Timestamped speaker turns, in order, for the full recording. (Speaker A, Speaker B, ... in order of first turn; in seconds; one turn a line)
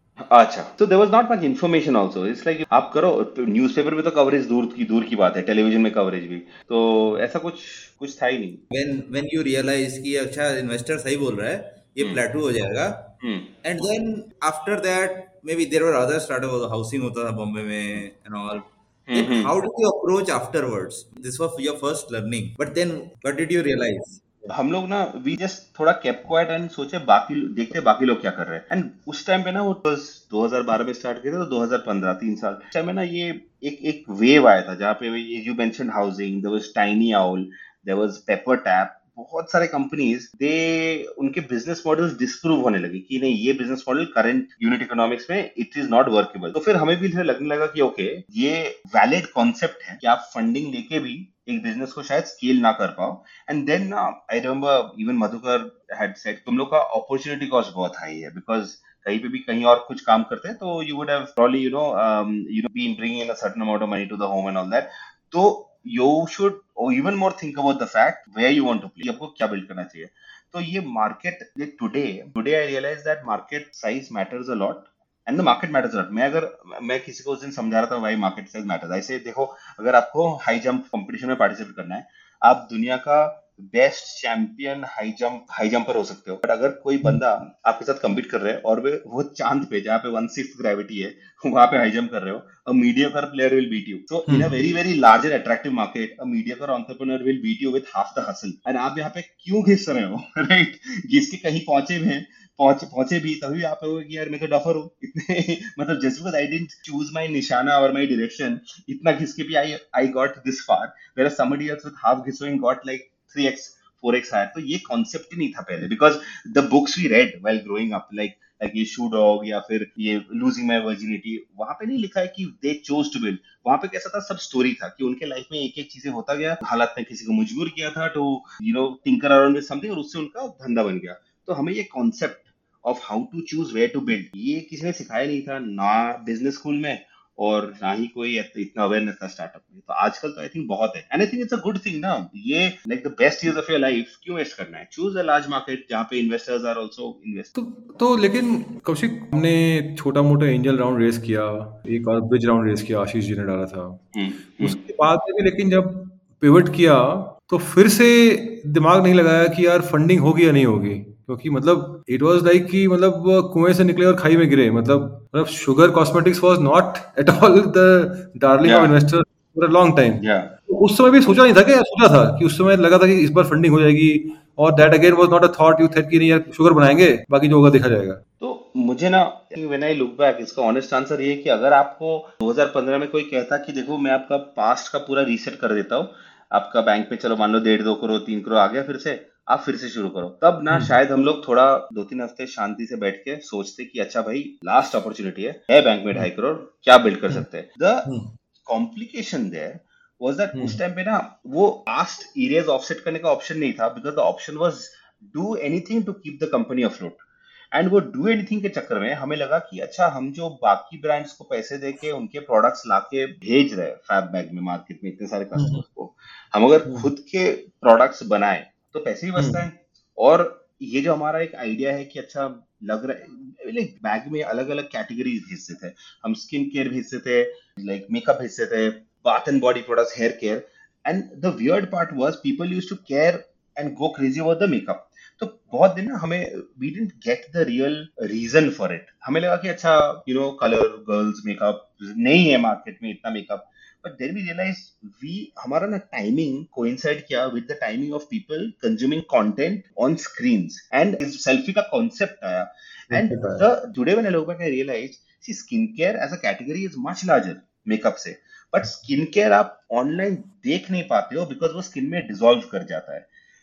Speaker A: 0.2-8.6
Speaker B: 8.7-13.1
Speaker A: 13.2-13.5
Speaker B: 13.6-24.4
Speaker A: 19.1-19.5
Speaker A: 24.5-147.6
Speaker C: 94.3-94.5
Speaker C: 147.6-154.0
Speaker A: 154.1-154.8
Speaker C: 154.6-178.2
Speaker A: 168.6-168.9
Speaker A: 170.2-170.5
Speaker A: 178.4-198.1
Speaker A: 198.7-207.2
Speaker C: 200.5-200.8
Speaker A: 207.7-263.3
Speaker C: 215.6-215.8
Speaker C: 219.4-219.6
Speaker C: 253.1-253.7